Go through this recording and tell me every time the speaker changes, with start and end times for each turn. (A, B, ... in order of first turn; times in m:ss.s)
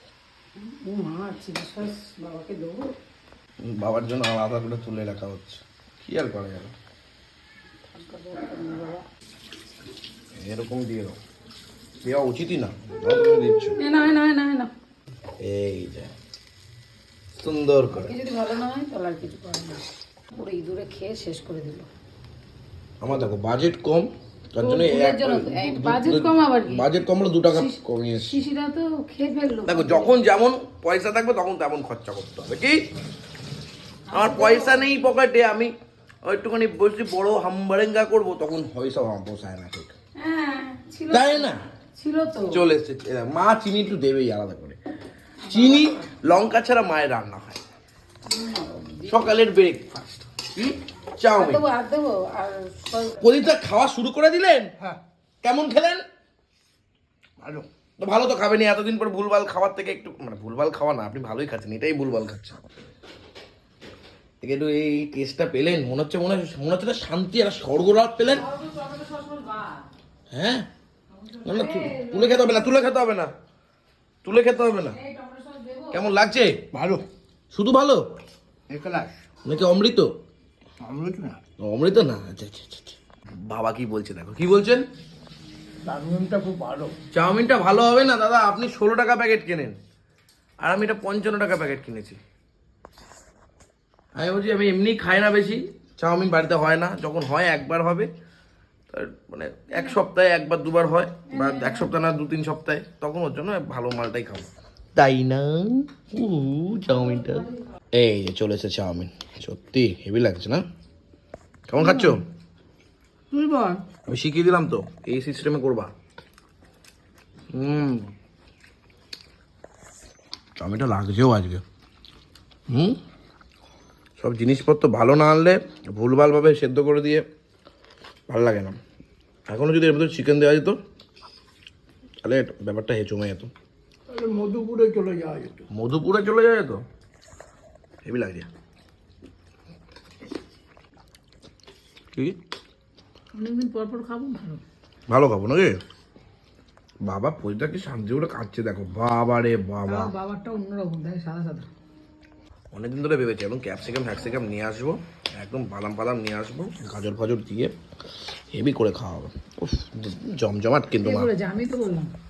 0:00.6-0:02.9 A
0:03.6-0:06.7 B
0:07.9-0:09.0 A
0:10.4-0:11.2 B
0:12.0-0:13.8 B
0:13.7-0:14.7 A
0:15.4-0:16.1 B
0:17.3-0:18.1 B
0:17.9-0:21.9 A
0:23.0-0:28.4 B
0:24.6-0:26.9 A
0:27.5-0:30.1 A
0:29.7-0:32.8 B
0:34.1-0:34.9 A
0:34.1-0:35.7 B
0:36.2-0:39.9 B
0:40.2-0:42.6 A
0:41.1-0:41.6 B
0:42.5-0:44.8 B
0:45.4-0:46.1 A
0:45.5-0:47.6 B
0:48.3-0:49.4 A
0:49.1-0:51.6 B
0:51.3-0:53.3 A
0:53.2-0:54.7 B
0:55.4-0:56.0 B
0:57.4-0:57.7 C
0:58.0-1:02.7 B
1:04.4-1:08.5 B
1:08.3-1:09.9 A
1:10.3-1:10.6 B
1:11.1-1:12.9 A
1:11.4-1:13.3 B
1:14.2-1:15.0 B
1:14.9-1:16.0 A
1:15.9-1:16.6 B
1:16.7-1:17.0 C
1:17.5-1:18.0 B
1:18.7-1:19.3 C
1:19.4-1:20.1 B
1:20.8-1:21.4 C
1:21.6-1:24.8 B
1:25.8-1:26.9 C
1:27.1-1:29.8 B
1:30.6-1:32.2 B
1:34.2-1:38.1 B
1:38.9-1:50.6 B
1:41.3-1:41.9 A
1:46.9-1:47.5 A
1:51.7-1:52.2 B
1:51.8-1:52.2 A
1:53.3-1:53.8 A
1:54.1-1:55.9 B
1:57.5-1:58.1 B
2:00.6-2:01.6 B
2:02.7-2:03.0 B
2:04.2-2:07.2 B
2:08.3-2:08.8 B
2:09.5-2:10.8 B
2:12.2-2:13.5 B
2:14.1-2:15.7 C
2:15.7-2:16.8 B
2:18.0-2:18.5 B
2:23.3-2:24.6 A
2:25.1-2:25.8 B
2:27.0-2:30.1 B
2:29.8-2:31.7 A
2:32.7-2:37.7 B
2:38.5-2:41.3 B
2:41.0-2:42.1 A